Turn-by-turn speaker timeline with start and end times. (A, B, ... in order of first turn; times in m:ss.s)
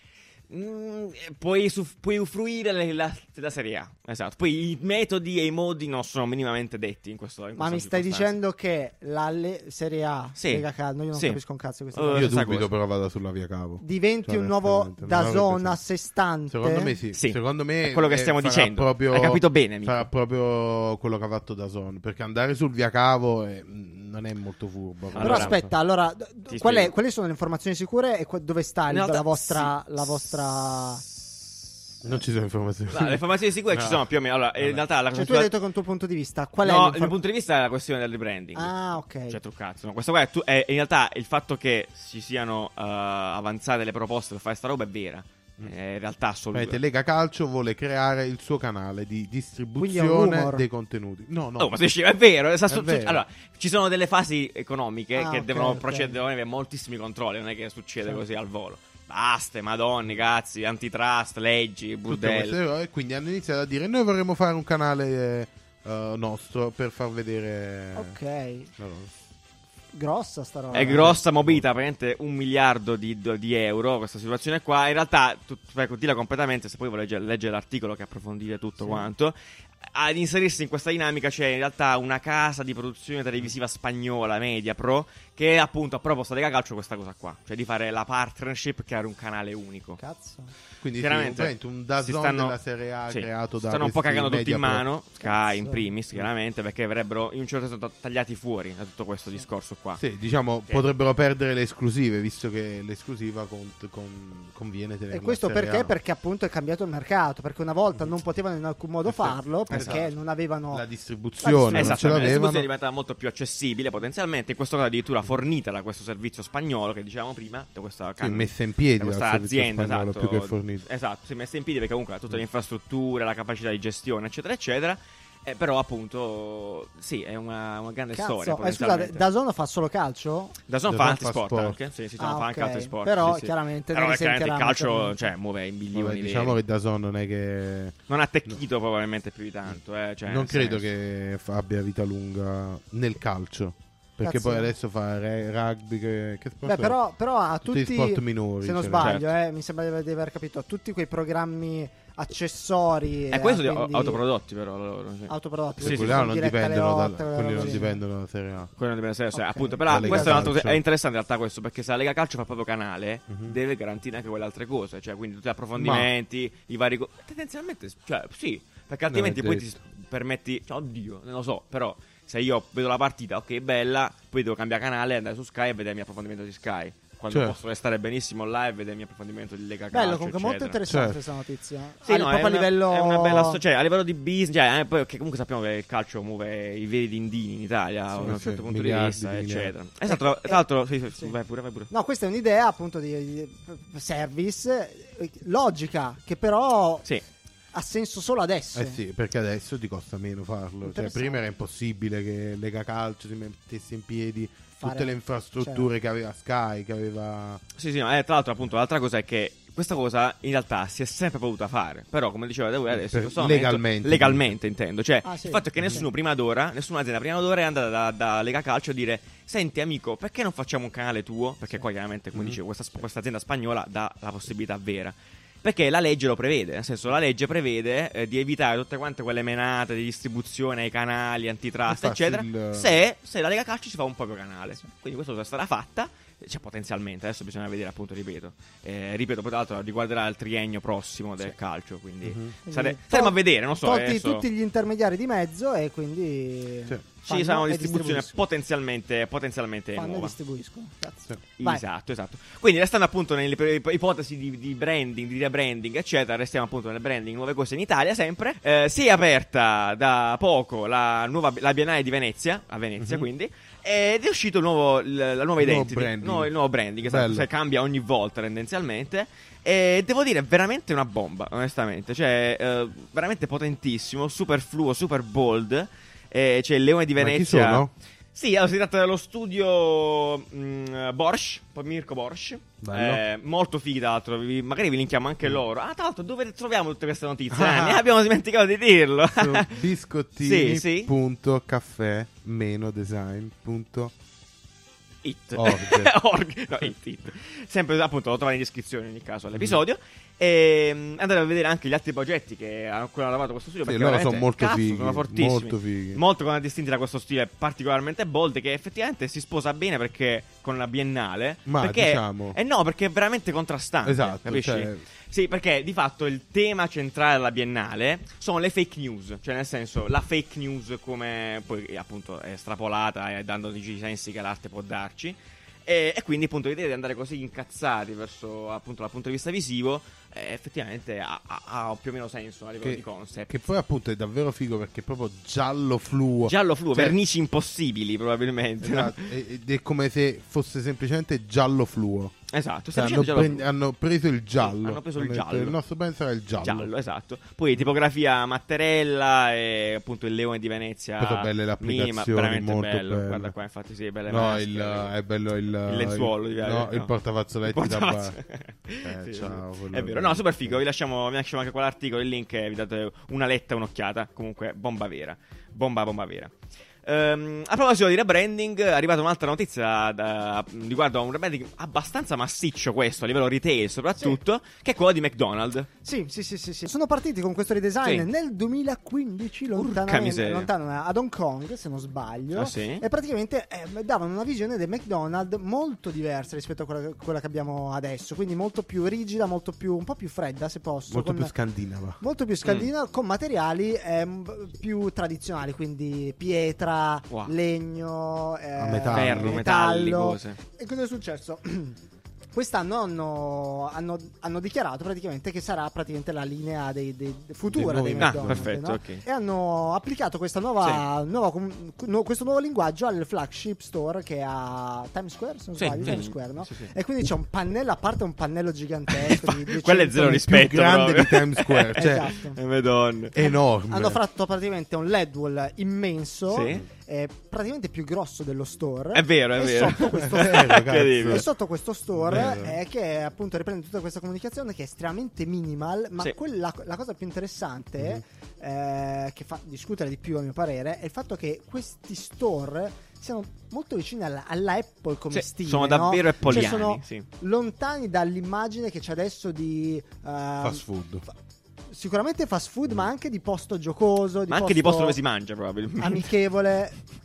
0:00.5-0:08.4 A
0:07.6-0:12.4 B
0:10.4-0:11.4 A
0:11.9-0:12.7 A
0:12.1-0:15.8 C
0:13.8-0:17.0 B
0:16.5-0:25.7 C
0:17.1-0:20.1 A
0:25.1-0:25.6 A
0:25.2-0:31.0 B
0:26.5-0:26.9 A
0:28.9-0:29.7 A
0:30.7-0:31.5 A
0:32.0-0:34.0 C
0:32.9-0:35.5 A
0:34.6-0:34.8 C
0:35.2-0:37.2 B
0:36.6-0:38.7 A
0:38.6-0:39.4 B
0:39.3-0:46.8 A
0:46.5-0:51.8 C
0:49.8-0:50.6 B
0:51.6-1:02.6 A
0:52.7-0:53.2 C
0:55.2-0:56.2 B
1:02.1-1:08.2 C
1:08.0-1:08.7 B
1:08.8-1:09.1 C
1:09.9-1:11.2 B
1:10.7-1:11.6 C
1:10.7-1:19.4 A
1:19.9-1:30.0 A
1:30.0-1:30.5 B
1:30.8-1:34.8 C
1:31.0-1:32.6 A
1:33.1-1:40.0 A
1:35.2-1:35.9 B
1:40.0-1:46.0 C
1:45.1-1:50.8 B
1:49.1-1:50.1 C
1:49.7-1:50.1 A
1:50.7-1:52.7 C
1:51.4-1:52.2 B
1:51.7-2:09.2 A
1:58.2-2:00.9 C
2:08.1-2:10.6 B
2:10.7-2:16.6 A
2:10.9-2:11.8 C
2:12.2-2:15.3 B
2:15.9-2:18.0 C
2:18.1-2:20.9 A
2:20.3-2:27.0 C
2:24.2-2:24.7 B
2:26.6-2:34.2 B
2:27.6-2:29.2 C
2:29.0-2:29.3 A
2:33.3-2:36.3 A
2:35.3-2:38.0 B
2:35.8-2:38.7 C
2:38.8-3:00.8 A
2:39.3-2:40.5 B
2:39.9-2:40.8 C
2:43.3-2:43.6 C
2:45.8-2:46.1 C
2:49.1-2:49.7 C
2:57.3-2:57.6 C
2:59.9-3:03.6 B
3:00.9-3:01.2 C
3:02.0-3:11.9 A
3:08.1-3:08.4 B
3:08.2-3:09.7 C
3:10.1-3:10.6 B
3:11.9-3:17.1 B
3:17.7-3:19.0 B
3:18.8-3:27.6 C
3:20.8-3:21.4 B
3:24.8-3:25.9 B
3:27.8-4:04.4 A
3:32.9-3:34.5 C
3:35.2-3:36.1 B
3:35.8-3:36.0 C
3:51.9-3:52.9 C
4:02.2-4:02.6 C
4:02.7-4:08.4 B
4:07.3-4:10.3 A
4:10.0-4:11.8 B
4:11.6-4:49.8 A
4:23.0-4:23.3 C
4:25.6-4:26.5 C
4:27.0-4:27.5 C
4:37.2-4:37.9 C
4:42.8-4:43.2 C
4:47.5-4:48.0 C
4:49.3-4:54.1 C
4:50.4-4:51.1 A
4:55.2-5:33.5 A
4:55.6-4:56.1 C
5:03.8-5:06.2 C
5:11.7-5:12.6 C
5:14.0-5:15.0 C
5:32.8-5:37.2 C
5:36.5-5:39.2 A
5:38.8-5:42.3 C
5:42.5-5:43.6 A
5:42.9-5:46.9 C
5:44.6-5:45.8 A
5:46.6-5:55.1 A
5:51.2-5:53.5 C
5:54.3-5:58.4 C
5:55.9-5:57.1 A
5:57.7-6:15.9 A
5:59.0-6:00.8 C
6:16.0-6:31.5 B
6:19.8-6:20.7 A
6:22.5-6:23.0 A
6:31.1-6:32.2 C
6:32.2-6:42.0 B
6:38.8-6:39.6 C
6:39.1-6:40.6 A
6:42.5-7:00.5 B
6:47.7-6:48.7 C
6:48.2-6:49.2 A
6:55.8-6:56.9 A
6:59.1-7:03.4 A
7:00.2-7:02.3 C
7:02.0-7:02.6 B
7:03.3-7:04.2 C
7:03.9-7:30.8 B
7:06.5-7:06.8 A
7:09.2-7:11.5 A
7:10.1-7:11.4 C
7:12.2-7:12.8 C
7:25.3-7:27.3 A
7:30.6-7:31.3 C
7:31.9-7:35.2 B
7:34.5-7:36.3 A
7:36.0-7:37.0 B